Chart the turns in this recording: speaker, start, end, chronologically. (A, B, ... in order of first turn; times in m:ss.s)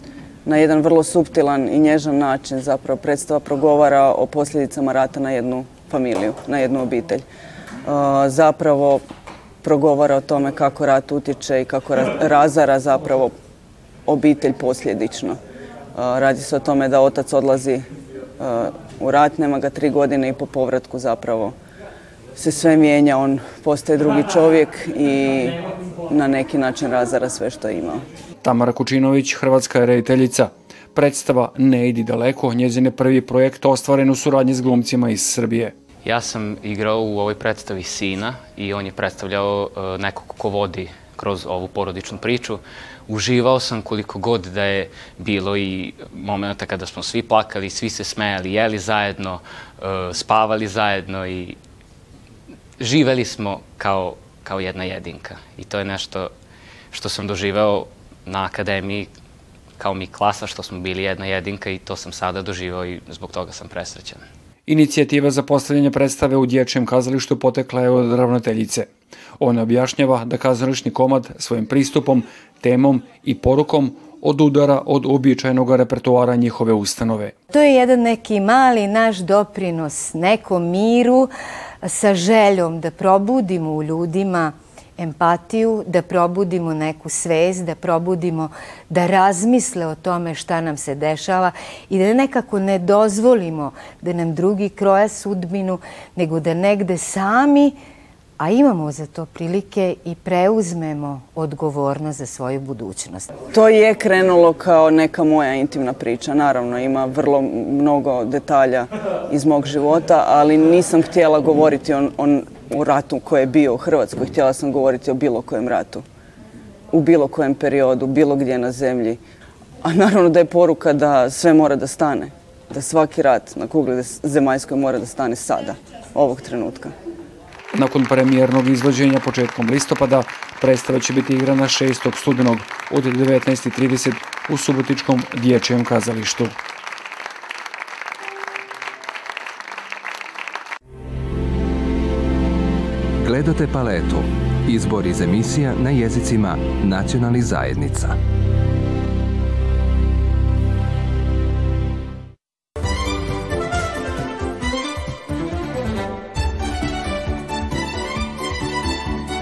0:00.5-0:07.2 A
0:07.9-0:09.0 A
0:09.6-0:13.3 A
0:14.1-0:15.4 A
0:15.9-0:17.9 A
0:18.4-0:21.6 A
0:22.4-0:28.0 A
0:28.4-0:35.7 B
0:36.0-0:51.6 C
0:52.8-0:56.3 C
0:56.9-0:59.1 C
0:59.8-1:04.2 C
1:04.7-1:08.9 B
1:09.4-1:17.3 B
1:17.5-1:21.3 D
1:21.8-1:37.8 D
1:38.4-1:43.3 D
1:43.4-1:56.0 A
1:56.9-1:59.2 A
1:59.8-2:06.9 A
2:07.7-2:16.5 B
2:23.2-2:28.1 E